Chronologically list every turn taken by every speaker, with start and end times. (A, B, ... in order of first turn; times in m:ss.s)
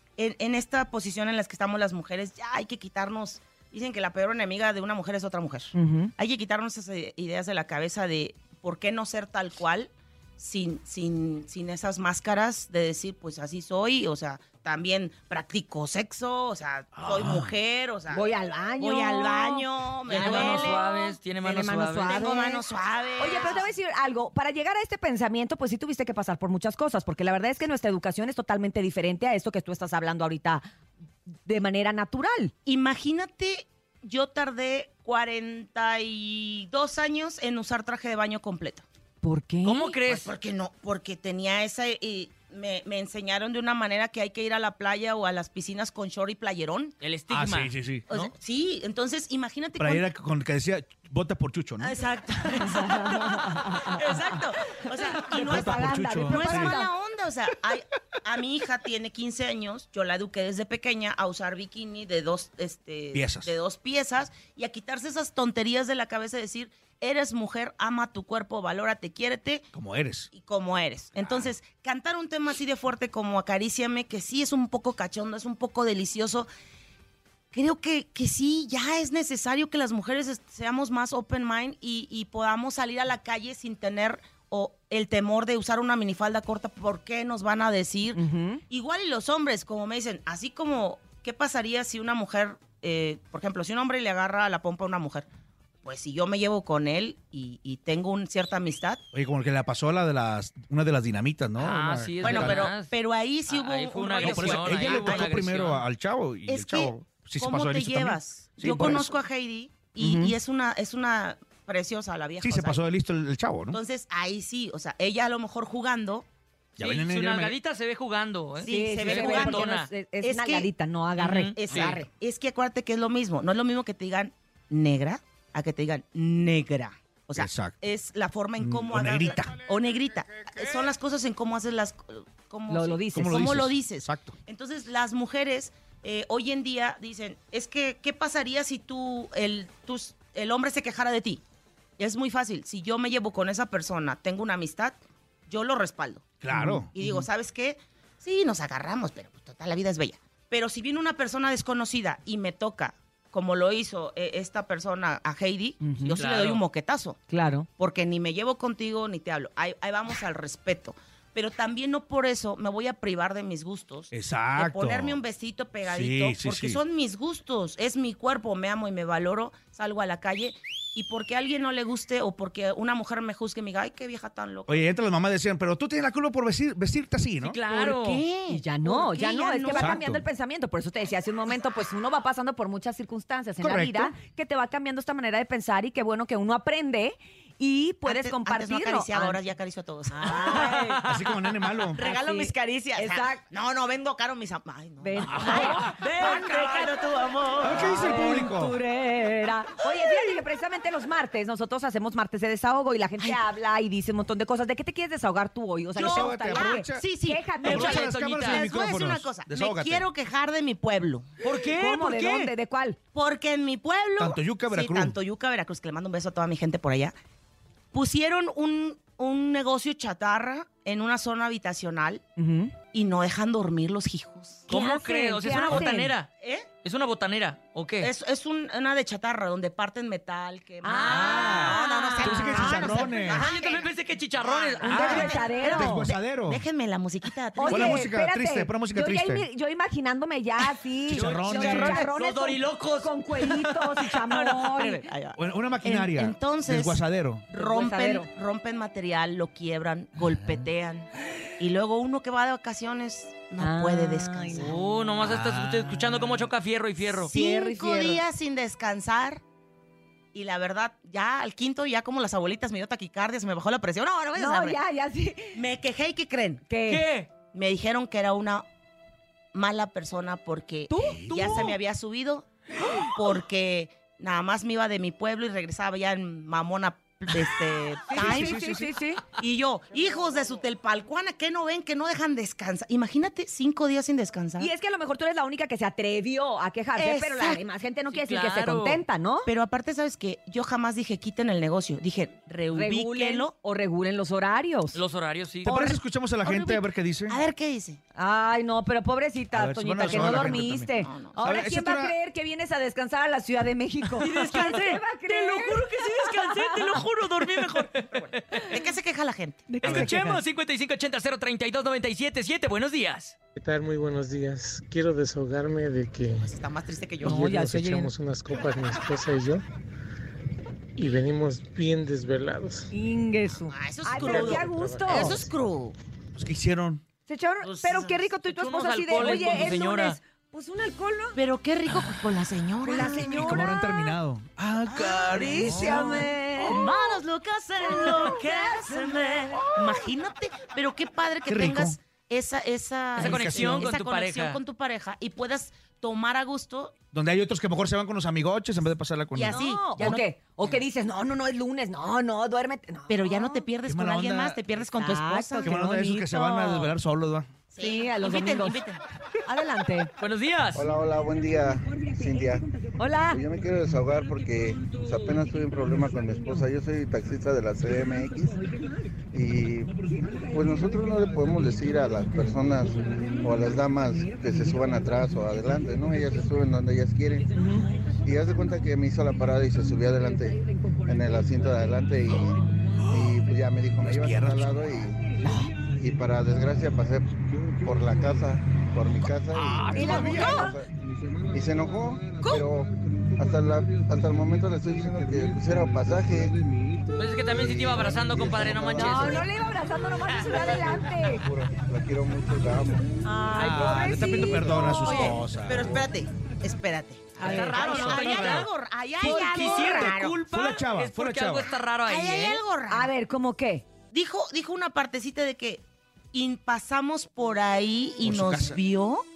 0:00.2-0:20.9 A
0:05.7-0:06.1 B
0:17.0-0:17.5 C
0:18.1-0:22.6 B
0:20.1-0:22.2 D
0:22.0-0:23.7 A
0:23.2-0:30.6 B
0:31.4-0:32.5 B
0:32.6-0:38.8 A
0:39.2-0:39.8 B
0:39.6-0:40.3 D
0:39.8-0:47.0 A
0:47.0-0:48.3 D
0:47.3-0:48.0 C
0:48.1-0:50.0 A
0:49.8-0:51.9 C
0:51.8-1:09.7 A
0:52.8-0:54.0 B
0:55.2-0:56.9 B
0:55.4-0:56.8 C
1:03.1-1:03.5 C
1:09.7-1:10.3 C
1:10.3-1:16.5 A
1:11.2-1:11.5 C
1:17.5-1:35.3 A
1:28.1-1:28.6 B
1:35.8-1:39.0 A
1:39.1-1:42.7 C
1:41.6-1:42.9 D
1:42.2-1:45.5 A
1:43.5-1:45.8 D
1:44.2-1:49.1 C
1:46.5-1:52.8 A
1:50.0-1:50.4 B
1:52.4-1:53.8 C
1:53.7-1:56.2 A
1:56.8-1:57.6 C
1:56.8-1:59.9 D
1:58.6-2:00.7 A
1:58.7-2:02.0 B
2:01.2-2:02.0 D
2:01.5-2:21.4 A
2:07.3-2:07.8 C
2:08.6-2:09.7 C
2:12.7-2:13.3 B
2:13.1-2:14.4 C
2:22.0-2:26.2 A
2:26.4-2:26.9 C
2:26.9-2:37.2 A
2:35.8-2:36.2 B
2:36.0-2:36.6 D
2:37.3-2:37.7 B
2:37.8-2:54.8 A
2:44.1-2:45.2 C
2:45.8-2:46.8 C
2:54.7-2:57.6 C
2:57.4-2:58.2 D
2:57.7-3:00.0 A
2:58.5-3:09.4 B
2:59.7-3:00.2 C
3:03.6-3:04.1 C
3:08.0-3:10.7 A
3:10.1-3:11.0 B
3:10.3-3:11.4 D
3:11.0-3:12.0 C
3:11.9-3:18.1 A
3:12.0-3:13.4 B
3:15.0-3:16.8 B
3:15.2-3:16.9 D
3:17.6-3:18.8 C
3:17.7-3:27.9 B
3:23.2-3:23.4 A
3:25.9-3:31.3 A
3:26.0-3:27.0 C
3:27.6-3:30.1 C
3:27.6-3:28.6 D
3:31.4-3:32.5 D
3:31.7-3:33.0 B
3:33.1-3:37.1 A
3:34.2-3:35.2 C
3:37.9-3:42.2 A
3:42.4-3:42.7 B
3:42.9-3:44.7 A
3:44.7-3:46.3 D
3:44.7-3:46.1 B
3:46.4-3:46.7 A
3:46.8-3:48.1 D
3:48.0-3:58.0 A
3:50.8-3:53.4 B
3:51.0-3:55.5 D
3:51.0-3:53.5 C
3:54.8-3:56.1 B
3:54.9-3:56.6 C
3:57.5-4:05.0 B
3:57.7-3:59.4 C
4:00.6-4:05.0 D
4:01.1-4:02.0 C
4:04.8-4:14.8 A
4:05.4-4:07.4 C
4:07.6-4:08.3 B
4:10.3-4:10.6 C
4:13.6-4:14.7 B
4:14.6-4:17.3 D
4:15.2-4:16.4 C
4:17.2-4:19.4 A
4:17.3-4:18.2 B
4:20.3-4:24.8 A
4:24.3-4:25.6 B
4:25.5-4:26.6 A
4:26.7-4:27.0 B
4:26.8-4:27.3 D
4:27.4-4:28.6 A
4:29.5-4:32.5 A
4:30.9-4:31.4 B
4:31.0-4:31.8 C
4:33.0-4:38.6 A
4:38.1-4:38.9 C
4:38.1-4:39.2 B
4:39.4-4:44.7 A
4:44.6-4:49.5 B
4:47.0-4:47.6 A
4:48.1-4:49.0 D
4:49.4-4:53.5 A
4:52.7-4:55.0 B
4:54.9-4:55.7 D
4:55.6-4:57.4 C
4:55.7-4:56.0 B
4:56.4-4:58.0 A
4:58.2-5:07.0 B
4:59.5-5:02.2 C
5:00.0-5:01.5 A
5:04.2-5:08.8 D
5:04.2-5:04.8 A
5:06.8-5:09.7 A
5:09.7-5:10.4 B
5:09.8-5:13.4 D
5:09.8-5:10.1 C
5:13.6-5:16.5 E
5:16.4-5:17.4 A
5:17.2-5:19.6 E
5:17.2-5:18.1 B
5:21.0-5:22.9 E
5:22.9-5:25.4 B
5:23.6-5:26.0 A
5:24.2-5:25.5 E
5:26.4-5:27.0 C
5:27.3-5:31.4 B
5:27.6-5:28.3 A
5:28.4-5:30.2 D
5:29.3-5:29.6 A
5:31.3-5:33.7 A
5:31.9-5:32.2 C
5:32.8-5:34.1 B
5:33.0-5:36.3 C
5:35.0-5:46.9 A
5:35.2-5:36.9 B
5:35.6-5:36.3 D
5:37.9-5:39.4 B
5:41.4-5:42.0 C
5:43.2-5:44.6 D
5:43.2-5:43.9 C
5:47.1-5:49.6 C
5:49.3-5:50.7 A
5:49.5-5:53.6 B
5:53.1-5:55.8 A
5:53.8-5:54.6 C
5:54.9-5:56.9 B
5:55.6-5:57.5 C
5:57.7-5:59.0 A
5:57.8-5:58.8 B
5:59.4-6:00.1 B
6:00.2-6:00.9 D
6:00.8-6:02.6 F
6:02.1-6:03.4 B
6:03.3-6:08.6 F
6:09.3-6:09.9 F
6:10.2-6:11.5 B
6:10.5-6:17.5 F
6:13.4-6:13.9 B
6:17.6-6:18.0 B
6:18.2-6:22.6 F
6:22.3-6:23.4 C
6:23.1-6:25.2 F
6:24.0-6:25.2 C
6:25.4-6:25.7 A
6:25.9-6:30.9 F
6:29.5-6:30.7 C
6:29.8-6:30.2 D
6:29.9-6:30.7 B
6:30.1-6:30.6 A
6:31.5-6:36.5 F
6:37.2-6:39.4 D
6:37.9-6:39.3 F
6:39.0-6:41.4 B
6:40.4-6:40.7 A
6:41.0-6:43.0 F
6:43.2-6:45.4 B
6:43.5-6:46.0 C
6:44.6-6:50.4 A
6:47.4-6:48.2 B
6:47.4-6:48.7 D
6:47.8-6:48.7 C
6:49.2-6:52.6 D
6:49.2-6:50.0 B
6:49.9-6:51.7 C
6:51.6-6:53.1 A
6:52.9-6:53.8 B
6:54.1-6:59.2 A
6:58.2-6:58.8 C